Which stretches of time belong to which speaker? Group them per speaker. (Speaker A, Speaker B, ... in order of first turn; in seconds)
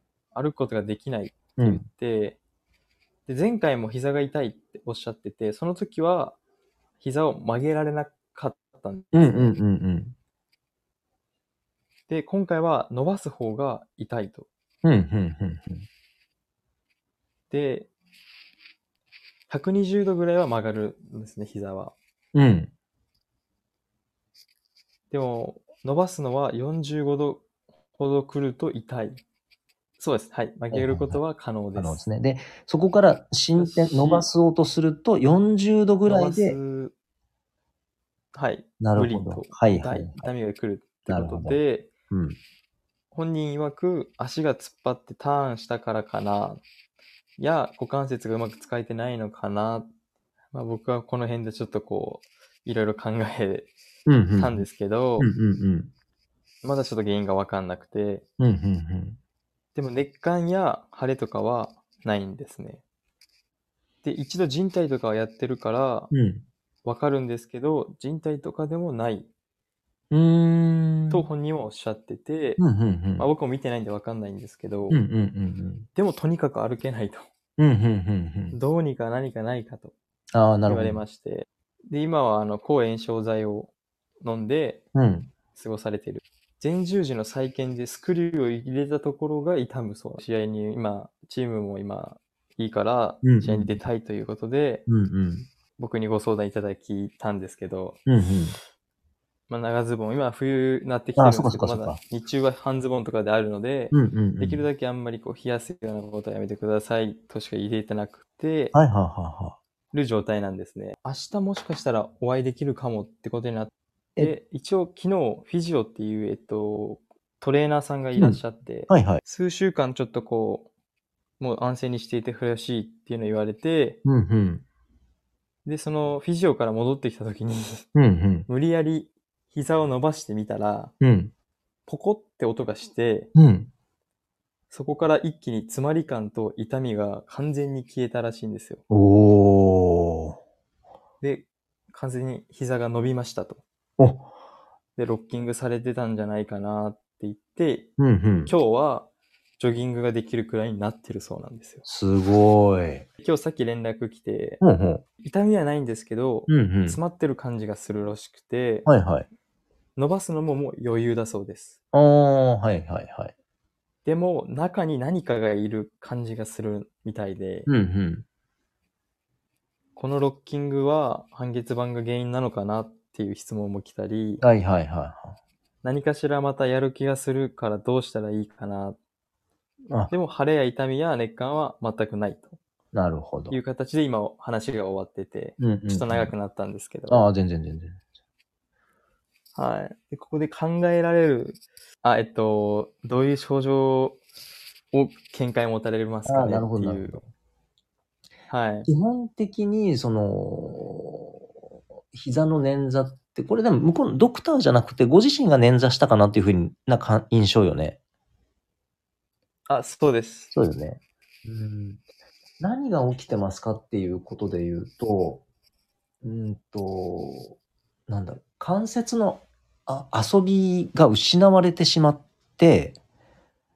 Speaker A: 0.3-2.4, 3.3-6.4, 7.0-9.6, 12.1-14.5, 17.5-17.9, 19.5-21.9, 25.1-27.5, 28.0-29.2, 30.0-32.0, 33.6-34.3, 36.0-36.9, 38.3-41.9, 43.1-46.6, 47.4-49.9, 50.5-53.7, 54.4-55.3, 56.6-58.2, 59.8-62.8, 64.0-66.1, 66.8-69.3, 71.1-72.6, 73.2-75.0, 76.0-77.3, 78.5-79.9, 80.7-84.8, 85.5-94.9, 95.8-98.0, 99.5-108.8, 109.9-120.7, 121.4-124.0, 125.7-127.9, 128.5-130.9, 131.9-133.3, 134.7-138.8, 141.2-143.6, 145.0-147.9, 148.5-151.8, 153.2-154.6, 155.2-158.9, 160.0-161.8, 164.1-167.7, 170.0-174.4, 175.8-179.0, 180.1-182.6, 183.5-187.3, 189.6-194.2, 194.9-197.2, 198.5-198.9, 209.7-210.5
Speaker B: 1.6-1.9, 9.1-10.2, 14.8-15.9, 22.3-22.7, 30.7-31.2, 31.8-36.6, 38.8-40.3, 41.1-41.6, 42.1-42.4, 54.1-54.7, 55.2-55.9, 58.4-59.2, 66.1-66.5, 70.1-71.3, 72.6-73.3, 74.9-75.9, 77.6-78.6, 80.3-81.0, 85.0-85.3, 93.2-93.8, 94.9-95.5, 98.1-98.6, 101.2-102.0, 103.9-104.7, 108.7-109.6, 118.2-119.2, 124.0-124.6, 128.0-128.5, 131.0-131.3, 133.3-133.7, 138.9-140.4, 144.0-144.3, 148.0-148.6, 151.8-153.1, 154.6-155.0, 156.5-157.0, 158.9-159.3, 161.9-163.3, 167.7-168.2, 174.4-175.4, 182.9-183.6, 185.6-186.3, 187.1-188.0, 196.2-197.2, 198.9-201.4, 202.1-208.0, 210.5-212.0, 212.6-215.4, 216.2-217.6, 218.1-223.0